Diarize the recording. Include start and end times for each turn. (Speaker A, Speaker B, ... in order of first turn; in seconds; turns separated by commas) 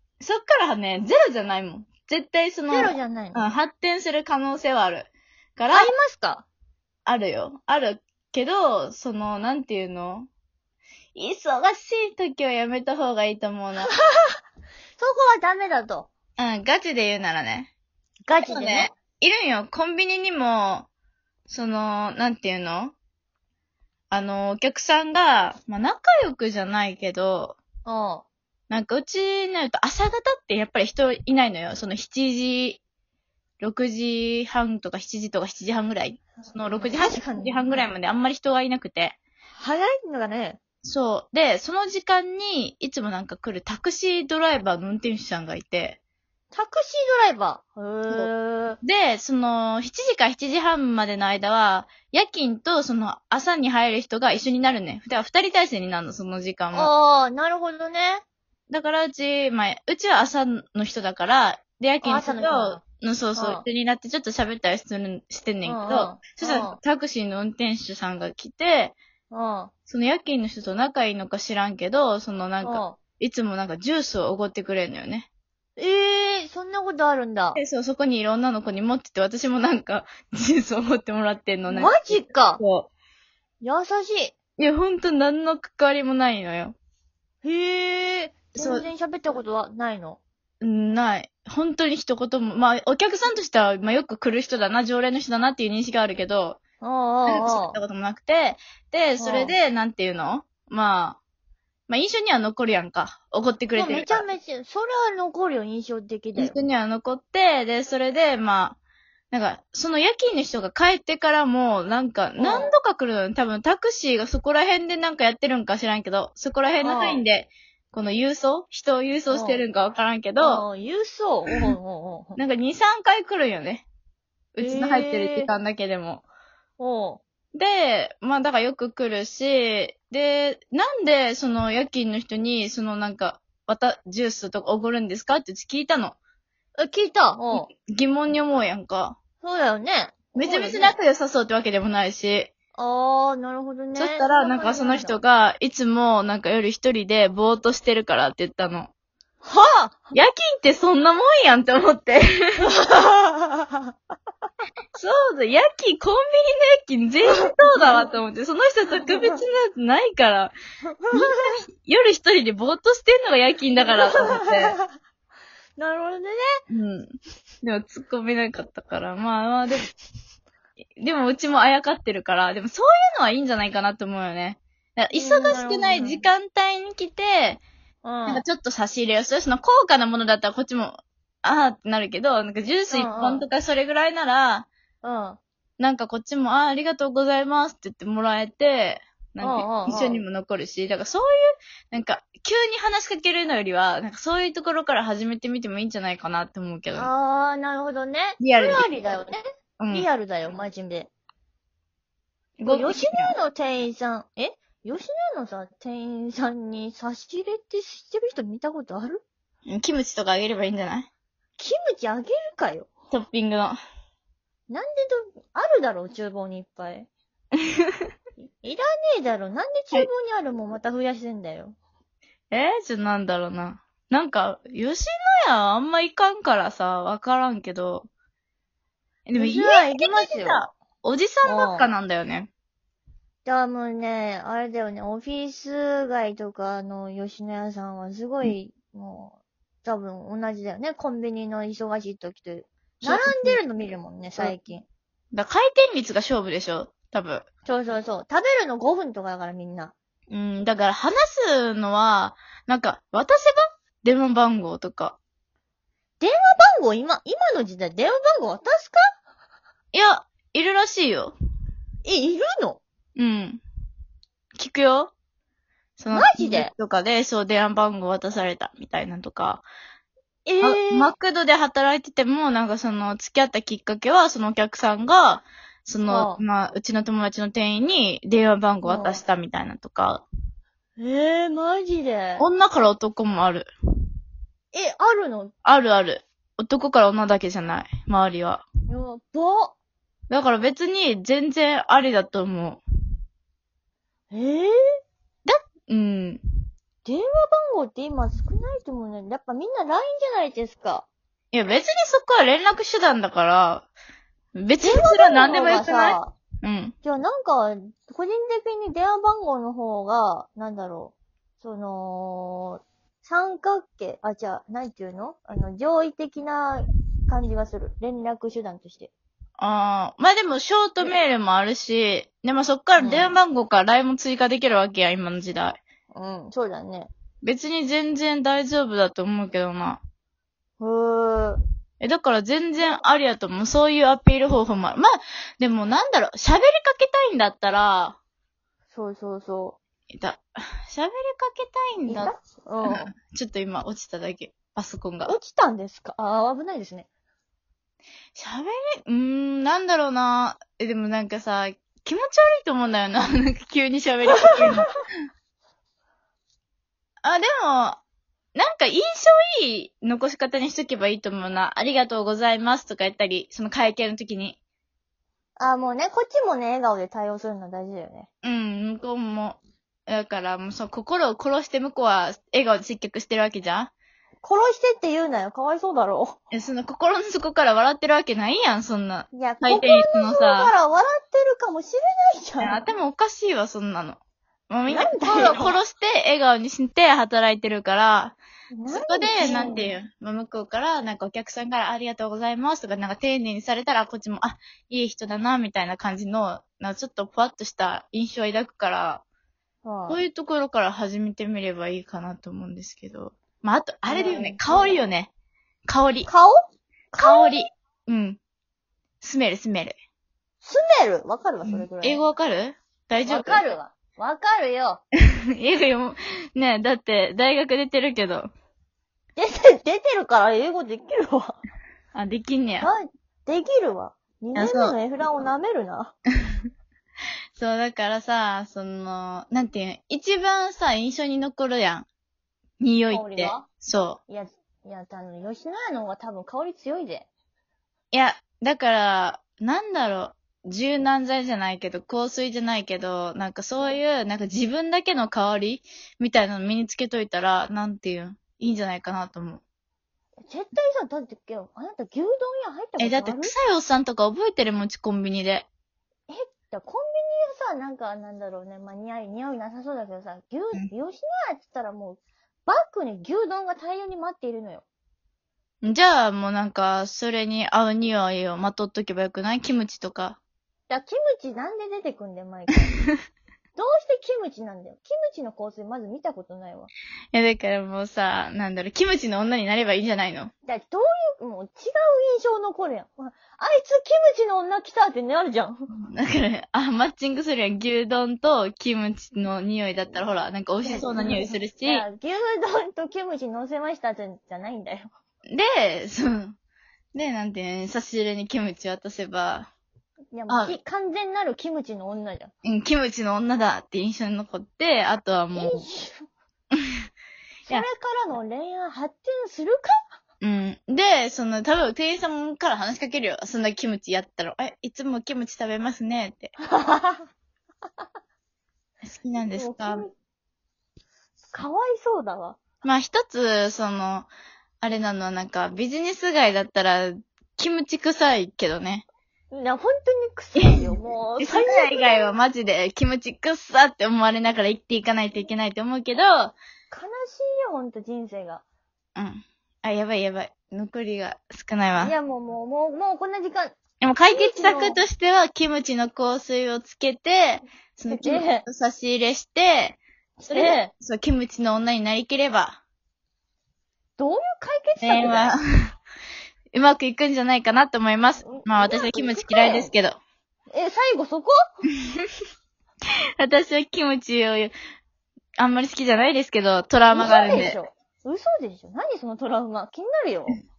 Speaker A: 0.2-5.9, Speaker B: 2.7-3.5, Speaker B: 5.7-6.5, Speaker A: 7.1-10.3, Speaker A: 11.2-13.9, Speaker B: 15.0-16.1, Speaker A: 16.4-17.7, Speaker B: 18.2-18.9, Speaker A: 18.4-20.9, Speaker A: 21.5-23.0, Speaker A: 24.1-27.6, Speaker B: 27.9-28.3, Speaker A: 28.7-32.8, Speaker A: 33.6-39.2, Speaker B: 36.7-37.7, Speaker B: 39.5-40.6, Speaker A: 40.8-46.0, Speaker B: 46.5-48.8, Speaker A: 48.8-56.9, Speaker B: 56.7-58.2, Speaker A: 58.7-69.0, Speaker B: 62.0-62.8, Speaker B: 63.4-63.6, Speaker B: 65.7-66.8, Speaker B: 69.3-69.7, Speaker A: 69.9-75.3, Speaker B: 72.6-73.0, Speaker B: 75.8-77.6, Speaker A: 77.6-82.9, Speaker B: 81.7-82.6, Speaker B: 83.6-84.3, Speaker A: 84.6-86.8, Speaker B: 87.4-90.2, Speaker A: 88.5-88.9, Speaker A: 90.6-96.6, Speaker B: 96.8-97.8, Speaker A: 97.3-101.2, Speaker B: 99.2-99.5, Speaker A: 101.9-104.2, Speaker B: 103.8-106.5, Speaker A: 106.4-108.8, Speaker A: 109.3-120.7, Speaker B: 112.4-112.7, Speaker B: 116.8-117.2, Speaker B: 119.3-119.6, Speaker B: 120.4-122.4, Speaker A: 122.4-123.9, Speaker A: 124.5-126.2, Speaker B: 124.6-125.5, Speaker B: 126.8-127.2, Speaker A: 127.5-136.2, Speaker B: 136.8-137.7, Speaker A: 137.5-139.2, Speaker B: 139.4-141.0, Speaker A: 140.3-142.5, Speaker B: 142.8-145.2, Speaker A: 143.9-148.9, Speaker B: 149.4-150.0, Speaker A: 150.1-152.7, Speaker B: 152.6-153.9, Speaker A: 155.0-160.5, Speaker B: 157.3-158.0, Speaker B: 159.0-159.4, Speaker B: 160.9-161.4, Speaker A: 161.1-164.8, Speaker B: 163.8-164.9, Speaker B: 165.8-166.4, Speaker A: 166.7-167.1, Speaker A: 167.6-169.9, Speaker A: 171.0-177.6, Speaker B: 175.1-176.2, Speaker B: 178.0-178.4, Speaker A: 178.3-184.7, Speaker B: 182.9-183.5, Speaker B: 185.0-185.4, Speaker A: 185.8-197.1, Speaker B: 189.4-190.2, Speaker B: 196.9-199.4, Speaker A: 198.4-198.9, Speaker A: 199.8-200.1, Speaker B: 199.9-201.1, Speaker A: 202.6-203.3, Speaker B: 202.7-209.2, Speaker A: 209.7-211.1, Speaker B: 211.6-212.9, Speaker A: 213.1-213.8, Speaker B: 214.7-217.1, Speaker B: 218.4-221.8, Speaker A: 222.5-228.1, Speaker A: 229.3-232.5, Speaker B: 229.4-230.6, Speaker B: 231.4-231.9, Speaker B: 233.4-244.9, Speaker A: 243.0-243.6, Speaker A: 245.3-247.4, Speaker B: 247.7-249.9, Speaker A: 250.3-255.2, Speaker B: 256.2-259.0, Speaker A: 259.9-261.4, Speaker B: 262.1-262.8, Speaker A: 263.2-263.6, Speaker A: 264.6-265.1, Speaker A: 266.0-269.7, Speaker B: 266.1-266.7, Speaker B: 270.5-271.1, Speaker A: 270.6-280.2, Speaker B: 276.1-276.4, Speaker B: 278.8-279.2, Speaker B: 281.0-282.4, Speaker A: 282.4-283.7, Speaker B: 284.7-285.5, Speaker A: 285.6-288.6, Speaker B: 288.9-289.7, Speaker A: 290.3-292.8, Speaker B: 294.3-294.7, Speaker A: 295.4-296.4, Speaker B: 297.1-301.1, Speaker A: 301.5-303.9, Speaker A: 304.6-306.9, Speaker B: 304.8-306.3, Speaker B: 307.0-319.1, Speaker A: 319.6-325.8, Speaker B: 323.0-323.3, Speaker B: 326.1-327.1, Speaker A: 327.4-330.0, Speaker B: 330.8-331.6, Speaker A: 332.0-338.2, Speaker B: 338.9-339.8, Speaker A: 340.1-345.4, Speaker B: 342.1-343.1, Speaker B: 345.3-347.1, Speaker A: 348.4-355.0, Speaker A: 357.2-358.0, Speaker A: 358.6-364.6, Speaker B: 365.6-368.3, Speaker A: 368.4-373.9, Speaker B: 374.4-376.4, Speaker A: 376.5-380.7, Speaker B: 379.3-382.8, Speaker A: 382.6-384.2, Speaker A: 384.7-388.4, Speaker B: 384.9-385.8, Speaker B: 388.7-389.9, Speaker A: 388.9-399.2, Speaker B: 399.9-400.2, Speaker A: 400.1-405.3, Speaker B: 404.1-404.9, Speaker A: 405.9-406.3, Speaker B: 406.3-406.6, Speaker B: 407.1-407.7, Speaker A: 407.2-408.4, Speaker A: 409.2-410.0, Speaker B: 410.6-412.2, Speaker A: 411.6-413.6, Speaker B: 413.2-415.0, Speaker A: 415.6-418.5, Speaker B: 419.4-421.6, Speaker A: 422.1-422.9, Speaker B: 422.8-426.1, Speaker A: 424.6-425.0, Speaker A: 427.6-432.1, Speaker A: 432.8-434.2, Speaker B: 433.1-433.7, Speaker B: 434.3-437.3, Speaker A: 438.1-449.6, Speaker B: 450.5-453.5, Speaker A: 453.0-455.7, Speaker B: 456.3-464.9, Speaker A: 465.8-470.4, Speaker B: 470.9-472.9, Speaker B: 473.8-476.9, Speaker A: 477.3-480.5, Speaker B: 480.7-485.9, Speaker A: 486.0-492.1, Speaker B: 490.8-495.1, Speaker A: 495.5-496.6, Speaker A: 497.1-499.7, Speaker B: 500.3-502.5, Speaker A: 500.5-500.8, Speaker A: 502.6-505.8, Speaker B: 505.6-506.3, Speaker B: 507.7-509.9, Speaker A: 510.4-516.5, Speaker B: 516.7-517.3, Speaker A: 519.0-520.1, Speaker B: 519.5-520.1, Speaker B: 521.5-522.6, Speaker A: 522.8-524.3, Speaker A: 524.8-529.1, Speaker B: 529.5-532.3, Speaker A: 531.4-536.6, Speaker B: 536.9-538.6, Speaker A: 539.2-542.1, Speaker B: 542.0-545.0, Speaker A: 544.0-552.8, Speaker B: 548.1-548.6, Speaker B: 550.4-550.9, Speaker B: 554.2-555.6, Speaker A: 555.0-555.6, Speaker A: 556.7-560.2, Speaker B: 558.4-559.9, Speaker B: 560.7-561.5, Speaker A: 563.4-564.7, Speaker A: 565.6-567.8, Speaker B: 567.1-570.6